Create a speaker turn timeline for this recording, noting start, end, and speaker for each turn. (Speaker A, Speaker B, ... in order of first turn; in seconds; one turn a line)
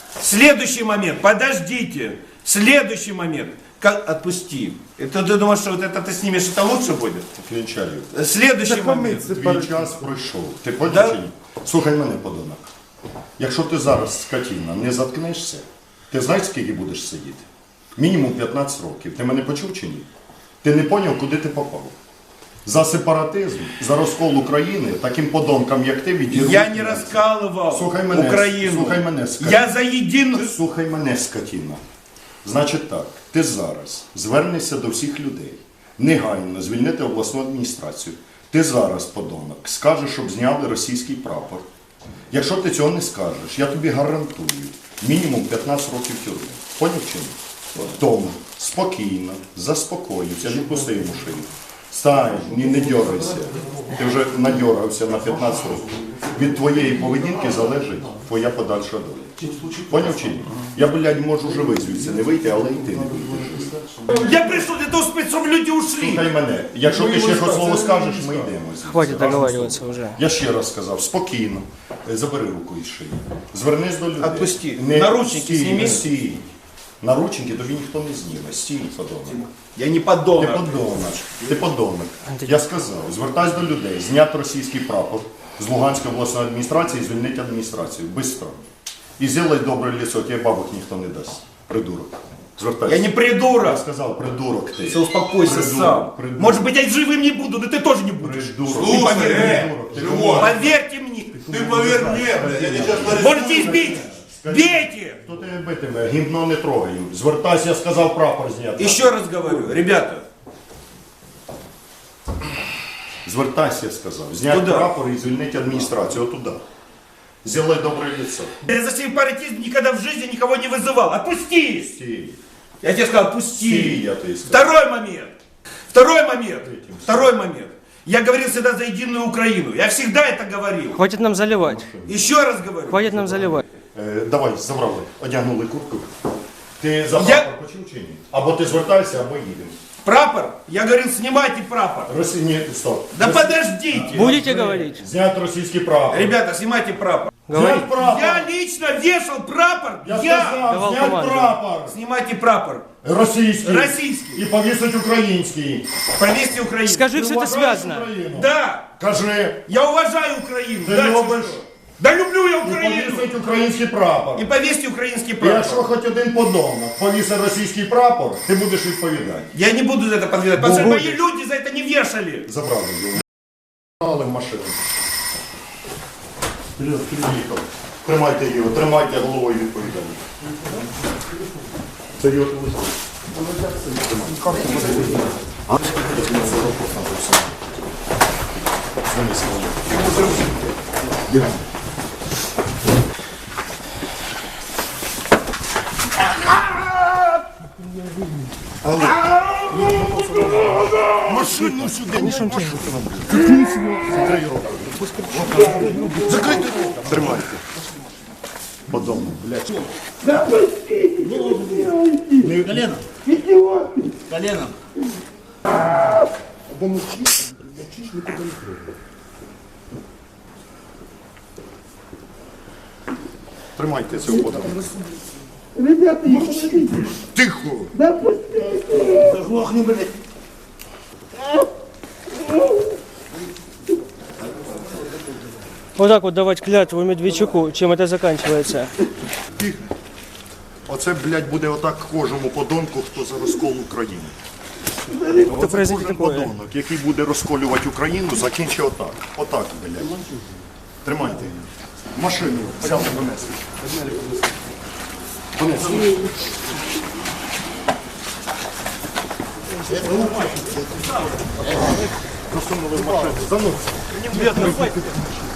Speaker A: 0.2-7.3
Speaker B: 7.4-8.1
Speaker A: 8.1-9.6
Speaker B: 8.6-12.7
Speaker C: 9.0-9.7
Speaker A: 10.9-11.2
Speaker B: 13.4-17.4
Speaker B: 17.9-20.1
Speaker B: 20.6-21.9
Speaker B: 22.6-29.7
Speaker A: 26.3-30.5
Speaker B: 30.3-31.8
Speaker B: 32.4-41.6
Speaker B: 42.3-63.8
Speaker A: 64.1-66.3
Speaker B: 66.0-76.5
Speaker C: 67.0-68.4
Speaker A: 67.2-67.8
Speaker D: 68.8-70.2
Speaker A: 74.2-76.1
Speaker B: 77.0-79.4
Speaker A: 79.3-81.5
Speaker B: 80.3-88.7
Speaker D: 82.2-82.5
Speaker B: 89.2-96.7
Speaker A: 92.8-93.8
Speaker A: 94.8-105.2
Speaker B: 98.2-100.8
Speaker C: 99.1-100.4
Speaker B: 101.4-109.7
Speaker C: 101.7-103.8
Speaker A: 108.8-110.2
Speaker B: 113.2-116.6
Speaker A: 114.5-114.9
Speaker B: 117.4-118.6
Speaker A: 118.7-121.9
Speaker B: 121.8-122.4
Speaker A: 122.8-125.3
Speaker B: 123.6-124.7
Speaker A: 125.9-131.0
Speaker B: 126.6-127.3
Speaker D: 130.9-131.9
Speaker B: 131.6-132.2
Speaker A: 132.1-133.1
Speaker D: 132.9-133.6
Speaker B: 133.0-136.1
Speaker B: 136.8-139.7
Speaker A: 137.1-137.5
Speaker A: 140.0-142.1
Speaker B: 142.1-146.3
Speaker A: 143.1-144.4
Speaker D: 144.1-145.0
Speaker A: 146.1-147.3
Speaker D: 147.5-147.9
Speaker B: 147.5-148.5
Speaker A: 147.9-150.7
Speaker B: 150.0-151.9
Speaker D: 150.6-151.6
Speaker A: 151.8-152.9
Speaker B: 153.0-155.9
Speaker A: 153.6-154.4
Speaker A: 156.2-157.7
Speaker D: 156.8-158.1
Speaker B: 157.1-159.6
Speaker A: 158.3-158.9
Speaker A: 159.7-163.3
Speaker B: 160.8-161.6
Speaker B: 162.6-164.5
Speaker A: 164.3-165.9
Speaker B: 165.4-169.5
Speaker A: 169.5-172.5
Speaker D: 170.6-171.2
Speaker B: 170.6-171.0
Speaker B: 172.5-173.2
Speaker B: 174.0-174.8
Speaker B: 176.8-180.2
Speaker B: 182.2-183.0
Speaker B: 183.9-187.9
Speaker B: 189.1-190.2
Speaker B: 191.3-191.6
Speaker B: 198.8-199.2
Speaker A: 199.5-202.4
Speaker B: 199.8-200.3
Speaker B: 201.2-207.6
Speaker D: 201.6-202.9
Speaker A: 205.8-207.4
Speaker B: 208.9-209.8
Speaker C: 211.1-213.0
Speaker B: 212.4-212.9
Speaker C: 214.2-214.7
Speaker B: 217.9-218.7
Speaker B: 223.8-224.9
Speaker B: 226.3-228.0
Speaker C: 229.0-230.0
Speaker A: 229.3-229.6
Speaker D: 235.9-238.9
Speaker B: 240.8-244.3
Speaker D: 245.2-246.5
Speaker B: 245.3-250.2
Speaker B: 251.0-253.7
Speaker B: 255.6-256.2
Speaker B: 262.5-264.8
Speaker A: 264.1-265.1